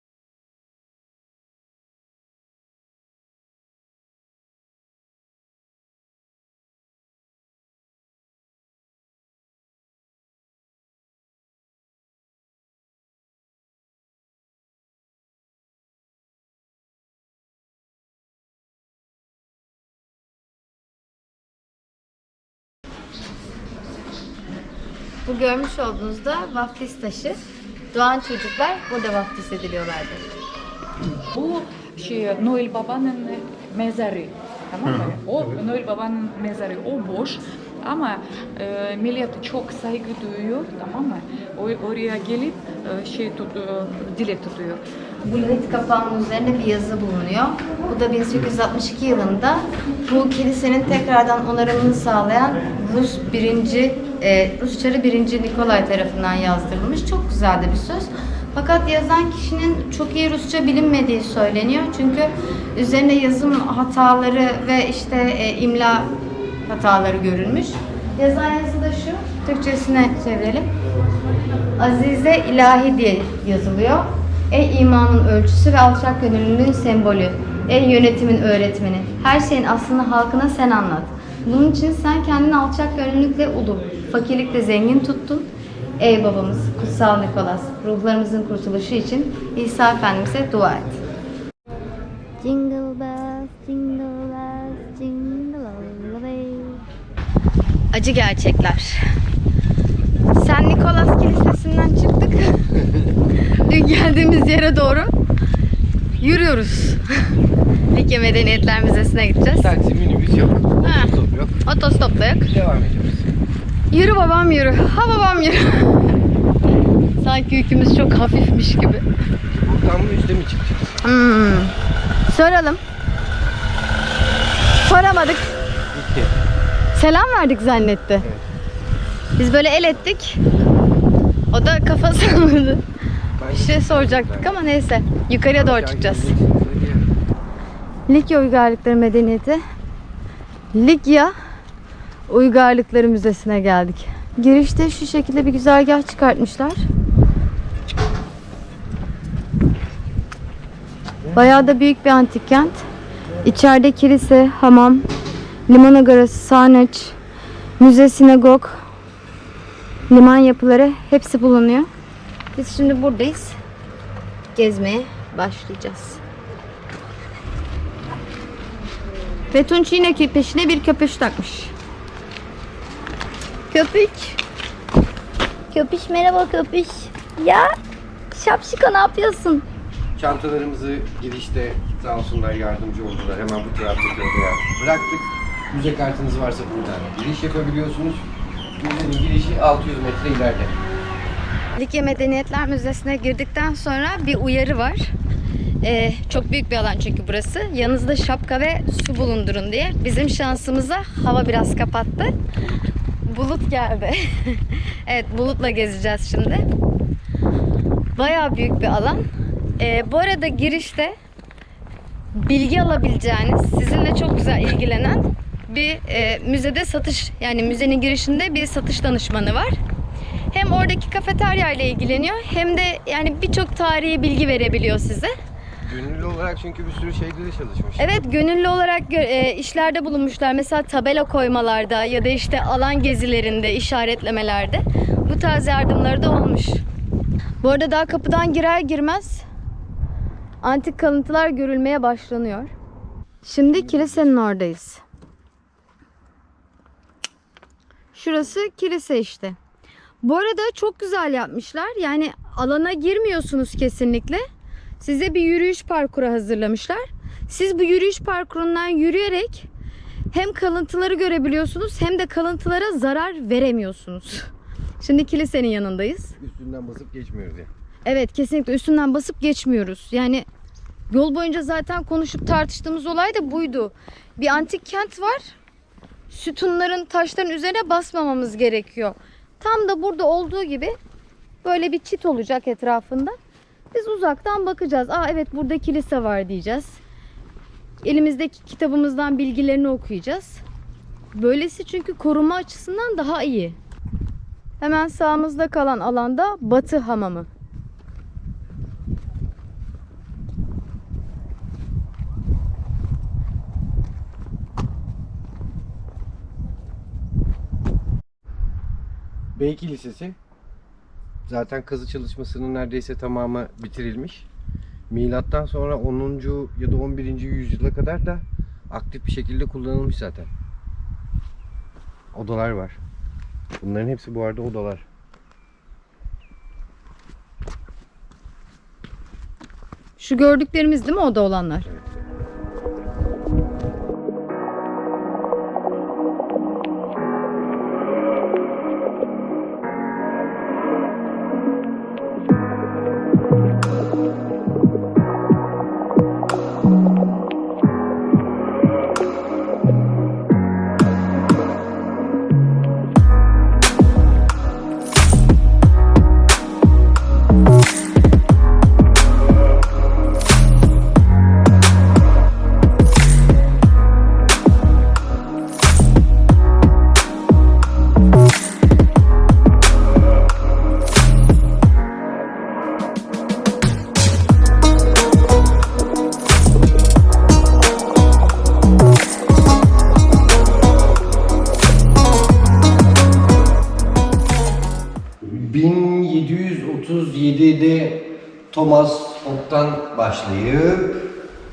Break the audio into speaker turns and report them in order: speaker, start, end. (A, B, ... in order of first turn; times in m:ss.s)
0:25.2-0:27.4 A
0:27.9-0:30.2 A
0:31.2-0:44.8 B
0:45.2-1:06.1 A
1:06.6-1:10.7 A
1:11.8-1:31.0 A
1:32.4-1:36.8 A
1:37.9-1:39.1 A
1:40.3-1:42.7 A
1:43.4-1:45.1 A
1:46.2-1:47.3 A
1:47.9-1:49.7 A
1:49.5-1:51.6 C
1:50.8-1:51.1 A
1:51.6-1:52.5 A
1:52.3-1:53.3 C
1:53.9-1:56.2 A
1:57.2-1:59.0 A
1:59.4-2:01.0 C
2:01.0-2:01.7 A
2:02.3-2:02.8 A
2:04.8-2:05.6 A
2:05.9-2:06.4 C
2:06.9-2:08.2 A
2:08.2-2:08.4 C
2:09.4-2:10.4 A
2:11.5-2:12.8 A
2:13.4-2:14.6 C
2:13.5-2:16.3 A
2:15.5-2:17.1 C
2:18.1-2:19.6 A
2:20.7-2:21.3 A
2:22.3-2:26.8 A
2:31.3-2:32.8 A
2:33.4-2:35.1 A
2:35.7-2:37.2 A
2:37.8-2:38.8 A
2:40.1-2:41.9 A
2:42.5-2:43.6 A
2:44.5-2:46.2 A
2:49.5-2:51.7 A
2:53.7-2:54.4 A
2:55.7-2:57.7 A
2:58.3-2:59.6 A
3:00.2-3:08.2 C
3:08.8-3:10.7 C
3:11.8-3:15.1 A
3:15.8-3:22.3 A
3:23.2-3:26.6 A
3:28.1-3:29.2 A
3:29.8-3:31.1 A
3:32.3-3:39.8 A
3:40.5-3:45.3 A
3:45.8-3:48.2 C
3:48.0-3:56.8 A
3:57.6-3:59.4 A
4:00.6-4:02.7 A
4:03.4-4:05.0 A
4:08.1-4:09.6 A
4:10.2-4:14.4 A
4:15.0-4:19.7 A
4:20.3-4:24.5 A
4:25.0-4:26.4 A
4:26.4-4:27.7 C
4:28.0-4:30.4 A
4:31.1-4:35.6 A
4:36.3-4:41.0 A
4:41.6-4:43.4 A
4:43.9-4:47.0 A
4:48.0-4:50.6 A
4:51.3-4:53.8 A
4:54.8-4:57.5 A
5:09.5-5:10.4 C
5:11.5-5:14.5 C
5:15.1-5:20.5 C
5:22.3-5:23.0 C
5:23.8-5:25.0 C
5:30.2-5:31.9 A
6:25.4-6:31.2 C